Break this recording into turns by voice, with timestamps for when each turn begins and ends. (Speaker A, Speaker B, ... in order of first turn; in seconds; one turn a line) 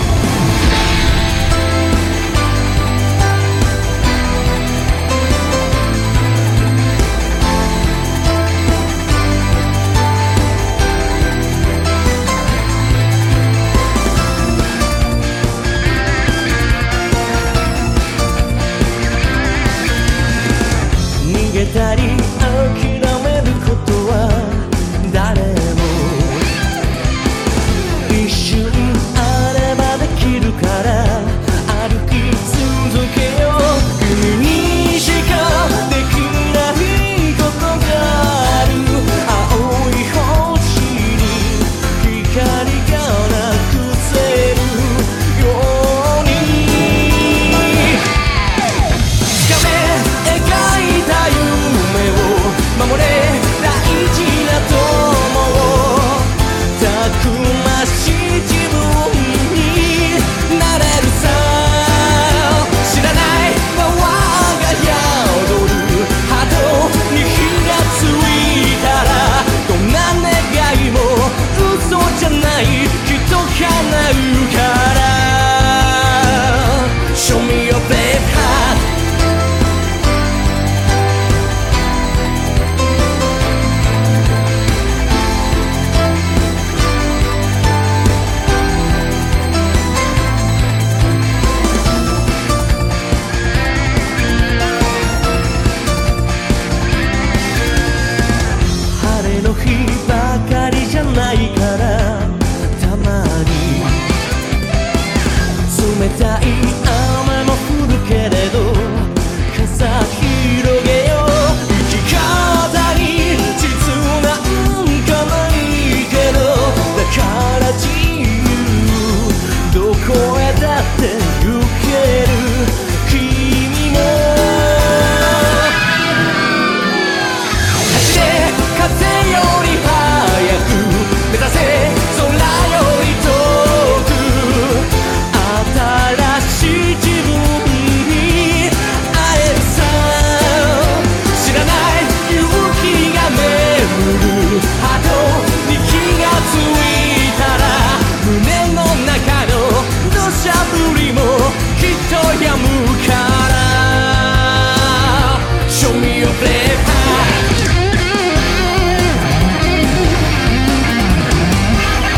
Speaker A: 21.2-26.5
Speaker A: 28.1-48.0
Speaker A: 49.4-78.9
Speaker A: 98.9-104.0
Speaker A: 105.7-125.7
Speaker A: 127.9-157.6